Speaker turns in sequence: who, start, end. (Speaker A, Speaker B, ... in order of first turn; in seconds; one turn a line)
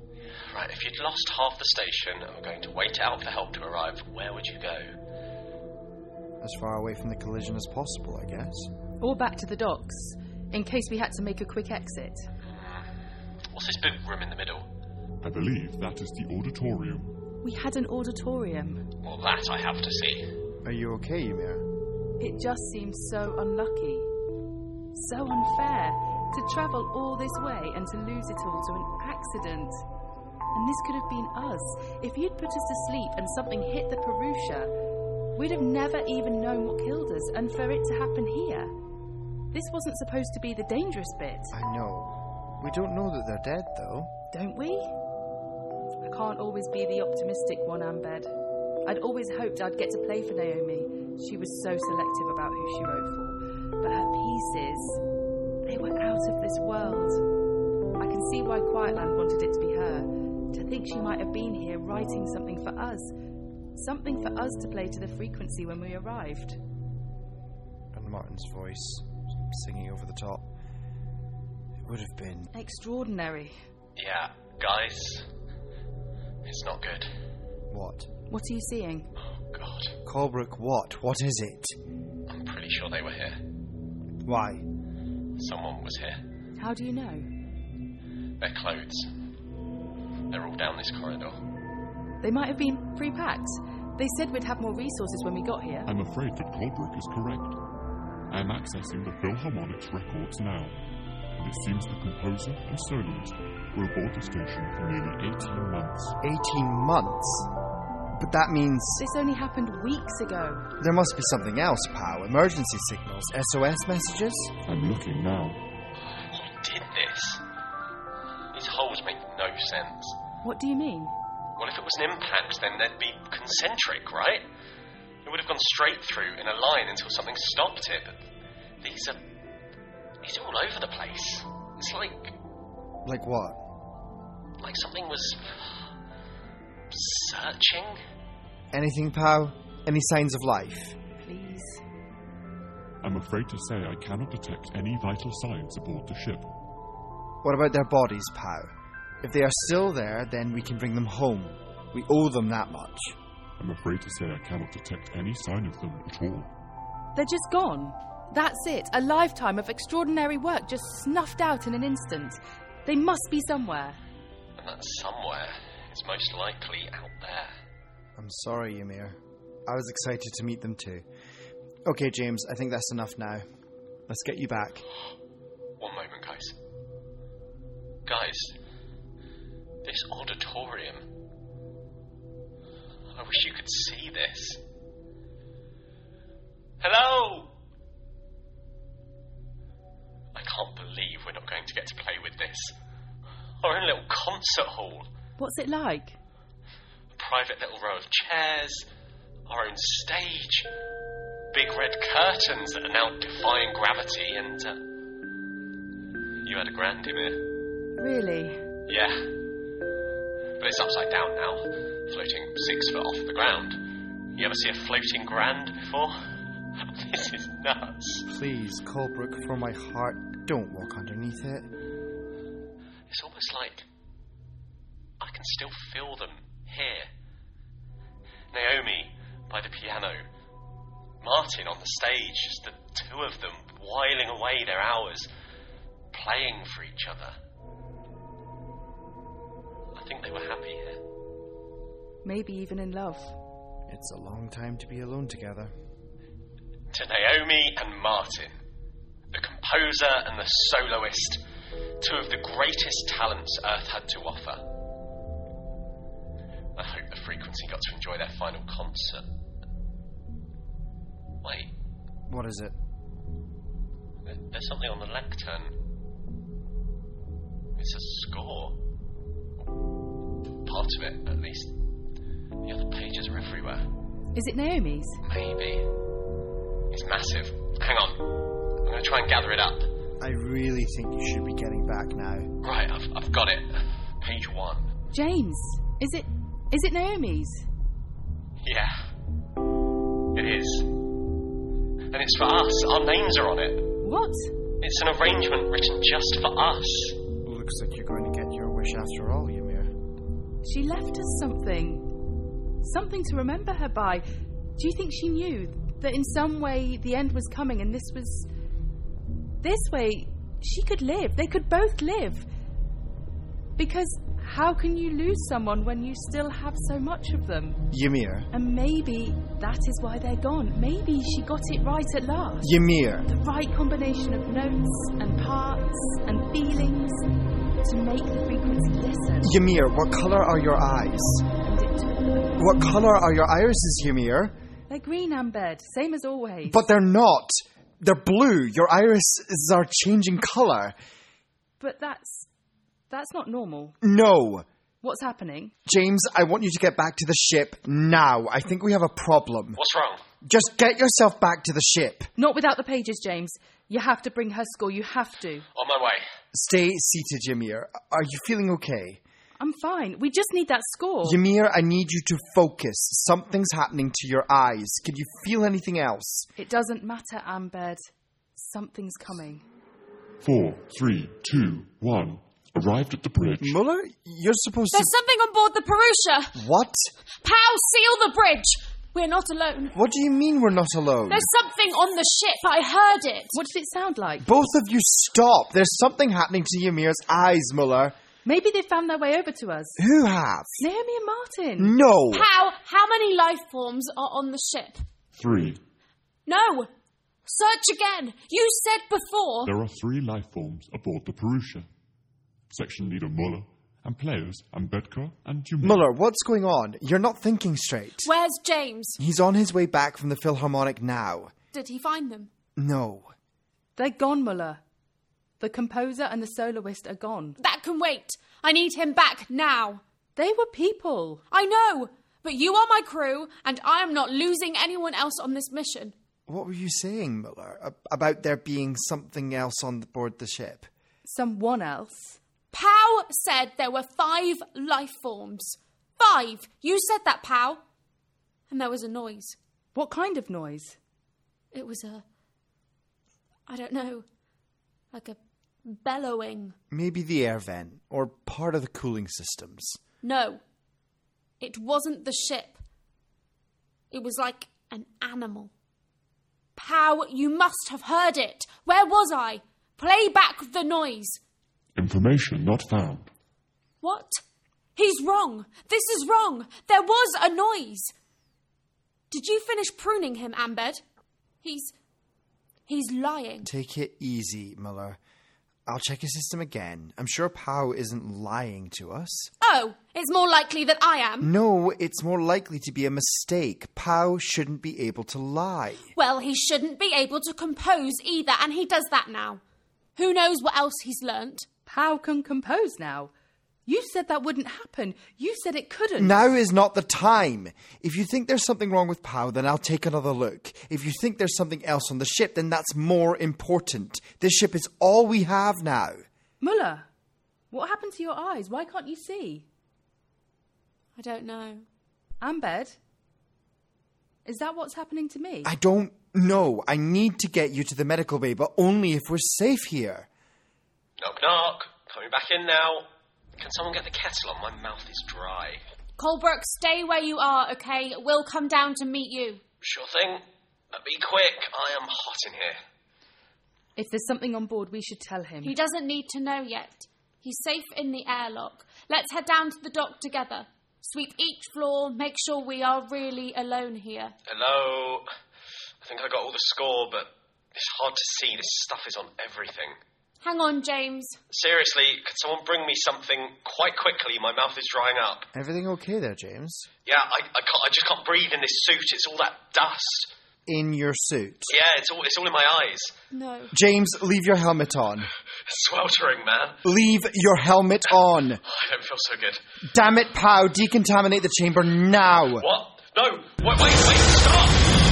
Speaker A: 0.5-5.0
Speaker B: 6.4-8.7
Speaker C: 9.0-12.3
Speaker A: 12.4-12.9
Speaker A: 13.5-14.7
Speaker D: 15.2-17.1
Speaker C: 17.4-18.8
Speaker A: 19.0-20.3
Speaker B: 20.6-21.6
Speaker C: 22.2-24.1
Speaker C: 24.9-29.8
Speaker C: 30.5-34.7
Speaker C: 35.4-38.7
Speaker C: 39.5-41.5
Speaker B: 41.5-44.1
Speaker C: 44.3-44.9
Speaker C: 46.0-48.3
Speaker C: 48.9-55.0
Speaker C: 55.7-57.2
Speaker C: 58.0-63.1
Speaker C: 63.8-66.6
Speaker B: 67.9-70.5
Speaker B: 71.8-72.5
Speaker C: 72.5-73.6
Speaker A: 74.0-75.3
Speaker A: 76.5-77.1
Speaker B: 77.7-78.1
Speaker C: 78.3-79.1
Speaker A: 79.2-80.0
Speaker B: 80.0-81.8
Speaker A: 82.3-83.4
Speaker B: 84.2-84.7
Speaker A: 85.4-86.2
Speaker C: 86.6-87.3
Speaker A: 88.4-89.1
Speaker A: 90.3-91.4
Speaker C: 92.2-95.9
Speaker D: 95.9-97.6
Speaker D: 98.3-100.8
Speaker D: 101.4-106.2
Speaker B: 106.2-107.5
Speaker B: 108.2-109.0
Speaker C: 109.0-110.7
Speaker B: 110.8-114.5
Speaker D: 114.7-115.6
Speaker A: 116.0-117.4
Speaker A: 118.5-120.2
Speaker C: 120.4-121.1
Speaker A: 121.6-124.5
Speaker A: 125.2-128.3
Speaker A: 128.8-129.2
Speaker A: 130.2-132.4
Speaker B: 133.1-133.6
Speaker A: 134.6-135.8
Speaker A: 136.9-138.0
Speaker B: 138.7-141.0
Speaker C: 141.2-141.8
Speaker D: 143.0-146.5
Speaker B: 147.4-148.7
Speaker B: 149.2-153.2
Speaker D: 153.6-156.5
Speaker C: 157.2-164.0
Speaker A: 164.6-167.6
Speaker B: 168.2-171.1
Speaker B: 171.8-173.4
Speaker B: 174.1-174.8
Speaker A: 175.8-176.6
Speaker A: 178.1-178.6
Speaker A: 179.8-181.1
Speaker A: 183.1-184.6
Speaker A: 186.8-187.5
Speaker A: 190.3-192.8
Speaker A: 193.6-195.1
Speaker C: 195.4-196.2
Speaker A: 197.1-198.9
Speaker A: 199.5-200.7
Speaker A: 201.5-204.9
Speaker A: 206.4-207.4
Speaker C: 208.0-208.6
Speaker A: 208.9-209.3
Speaker A: 210.6-216.2
Speaker A: 216.8-218.3
Speaker B: 218.3-221.7
Speaker A: 223.1-223.9
Speaker A: 225.2-227.1
Speaker A: 228.5-230.2
Speaker A: 231.2-235.3
Speaker A: 236.1-237.4
Speaker A: 239.9-241.0
Speaker C: 242.2-243.4
Speaker B: 243.9-245.7
Speaker A: 246.9-248.6
Speaker A: 249.3-251.4
Speaker A: 252.0-254.6
Speaker A: 256.8-259.3
Speaker A: 261.4-261.7
Speaker B: 262.3-262.8
Speaker A: 264.2-265.8
Speaker A: 267.8-268.8
Speaker A: 270.6-271.7
Speaker A: 272.6-273.9
Speaker C: 274.4-275.2
Speaker A: 275.2-275.9
Speaker A: 276.9-278.3
Speaker A: 278.8-279.9
Speaker B: 280.2-282.5
Speaker A: 282.6-284.9
Speaker C: 285.1-287.7
Speaker A: 288.6-289.1
Speaker A: 290.3-290.9
Speaker A: 292.1-293.9
Speaker C: 294.0-294.5
Speaker A: 294.8-297.2
Speaker B: 297.4-299.9
Speaker C: 300.6-302.1
Speaker C: 302.8-304.2
Speaker C: 304.8-308.5
Speaker C: 309.6-312.5
Speaker C: 313.8-317.8
Speaker B: 317.9-318.5
Speaker C: 318.5-322.7
Speaker B: 322.6-323.3
Speaker C: 323.3-327.3
Speaker C: 327.8-329.5
Speaker B: 329.4-331.5
Speaker C: 331.6-332.5
Speaker B: 332.6-334.6
Speaker C: 334.9-336.8
Speaker B: 336.7-341.0
Speaker C: 341.8-342.5
Speaker C: 343.1-344.0
Speaker B: 344.0-344.7
Speaker C: 345.0-345.7
Speaker B: 345.9-349.8
Speaker A: 349.8-350.2
Speaker B: 350.4-352.3
Speaker C: 352.4-355.7
Speaker A: 355.8-356.2
Speaker B: 356.5-359.2
Speaker C: 359.6-361.4
Speaker B: 361.2-366.5
Speaker C: 366.6-368.0
Speaker C: 368.6-369.6
Speaker D: 370.4-373.8
Speaker B: 373.6-375.1
Speaker E: 374.9-376.6
Speaker B: 376.6-377.1
Speaker E: 377.4-380.0
Speaker B: 379.9-381.5
Speaker E: 381.3-383.5
Speaker C: 383.5-384.5
Speaker B: 384.4-388.1
Speaker C: 388.5-390.0
Speaker B: 390.0-390.8
Speaker C: 390.8-392.0
Speaker B: 391.8-392.5
Speaker E: 392.3-395.1
Speaker D: 395.3-395.8
Speaker E: 396.5-396.9
Speaker E: 397.4-399.7
Speaker D: 399.6-401.9
Speaker D: 402.7-406.1
Speaker B: 405.8-408.3
Speaker E: 408.2-409.2
Speaker B: 409.2-411.5
Speaker E: 411.7-412.5
Speaker B: 412.8-413.3
Speaker C: 414.0-414.8
Speaker C: 415.6-417.6
Speaker E: 417.6-420.0
Speaker C: 420.4-421.4
Speaker E: 421.5-426.1
Speaker B: 426.5-430.9
Speaker C: 431.2-432.4
Speaker E: 432.7-437.8
Speaker E: 438.7-439.6
Speaker C: 439.9-441.0
Speaker E: 441.7-442.2
Speaker E: 443.7-444.2
Speaker E: 445.1-446.8
Speaker B: 446.9-450.0
Speaker E: 450.2-450.6
Speaker E: 451.6-452.8
Speaker E: 454.1-455.7
Speaker E: 456.8-461.4
Speaker D: 462.0-463.3
Speaker E: 464.0-464.4
Speaker E: 465.0-468.1
Speaker E: 469.3-471.0
Speaker E: 471.6-471.9
Speaker E: 472.9-473.7
Speaker B: 473.6-475.2
Speaker B: 475.9-479.5
Speaker E: 479.6-481.5
Speaker B: 481.4-486.1
Speaker E: 486.1-489.6
Speaker E: 490.2-491.7
Speaker C: 491.9-493.3
Speaker C: 493.9-496.4
Speaker B: 496.2-506.2
Speaker C: 506.6-507.1
Speaker C: 507.7-509.7
Speaker E: 511.2-511.9
Speaker C: 512.4-513.0
Speaker C: 514.5-515.7
Speaker B: 515.6-520.3
Speaker A: 521.2-525.8
Speaker E: 526.2-529.6
Speaker A: 529.8-532.8
Speaker C: 534.0-535.8
Speaker E: 535.6-544.3
Speaker A: 544.5-545.3
Speaker A: 546.0-550.0
Speaker E: 550.4-551.4
Speaker A: 551.5-555.5
Speaker B: 555.5-556.9
Speaker A: 557.0-560.3
Speaker B: 560.7-561.7
Speaker A: 561.7-563.2
Speaker E: 563.3-563.7
Speaker B: 563.7-565.3
Speaker A: 565.7-566.8
Speaker B: 566.9-568.6
Speaker A: 568.6-569.6
Speaker B: 569.9-572.7
Speaker A: 572.6-574.9